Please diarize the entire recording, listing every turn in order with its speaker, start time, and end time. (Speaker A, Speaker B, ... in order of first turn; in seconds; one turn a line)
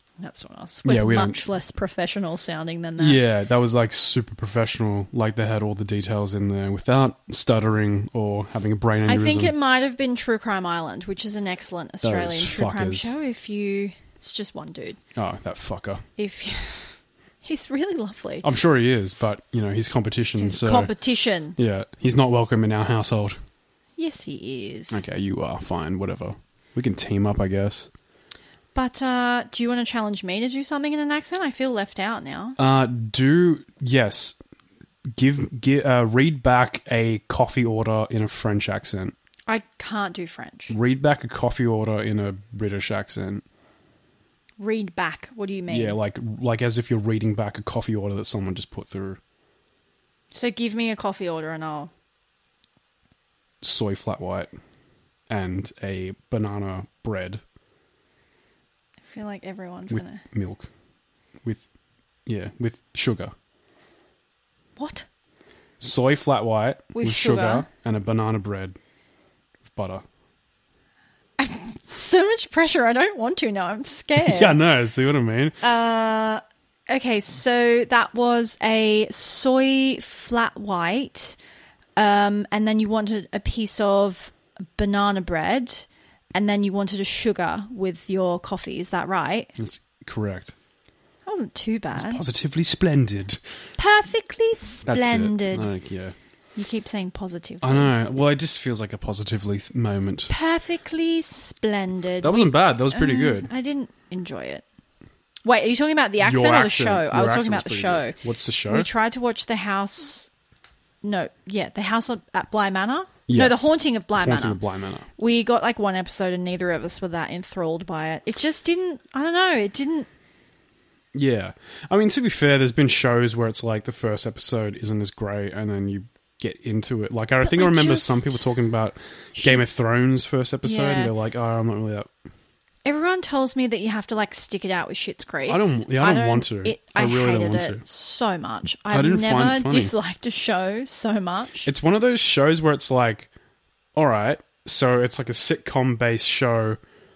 Speaker A: 0.2-3.2
Speaker B: 0.8-1.4
Speaker B: 3.0-9.5
Speaker A: 9.1-15.0
Speaker B: 12.0-13.1
Speaker B: 15.2-16.1
Speaker A: 16.2-18.5
Speaker B: 18.4-20.9
Speaker A: 20.4-21.6
Speaker B: 21.6-23.4
Speaker A: 24.0-25.0
Speaker B: 24.9-27.9
Speaker A: 28.7-32.6
Speaker B: 32.6-34.4
Speaker B: 35.1-39.1
Speaker A: 39.5-40.8
Speaker B: 40.7-43.4
Speaker A: 44.6-46.0
Speaker B: 45.7-49.2
Speaker A: 50.3-51.9
Speaker B: 53.6-54.5
Speaker B: 55.3-57.4
Speaker A: 59.1-60.2
Speaker B: 59.9-60.7
Speaker B: 62.3-63.3
Speaker A: 64.8-65.1
Speaker B: 65.8-68.8
Speaker A: 66.9-67.7
Speaker B: 69.7-70.0
Speaker A: 71.4-74.6
Speaker B: 74.2-75.6
Speaker A: 75.6-81.4
Speaker A: 82.0-89.5
Speaker B: 89.6-90.5
Speaker A: 91.3-92.2
Speaker B: 92.0-93.7
Speaker A: 93.8-95.7
Speaker B: 94.9-96.2
Speaker A: 96.5-97.9
Speaker B: 97.6-100.3
Speaker A: 100.3-104.7
Speaker B: 102.2-103.5
Speaker A: 105.4-110.3
Speaker B: 106.2-108.9
Speaker A: 111.0-114.6
Speaker B: 113.3-115.1
Speaker A: 115.2-120.1
Speaker B: 121.1-132.1
Speaker A: 127.4-128.5
Speaker A: 129.3-129.8
Speaker A: 130.6-131.1
Speaker A: 132.8-141.7
Speaker B: 135.5-137.8
Speaker B: 138.9-139.9
Speaker B: 141.7-143.3
Speaker B: 143.9-146.8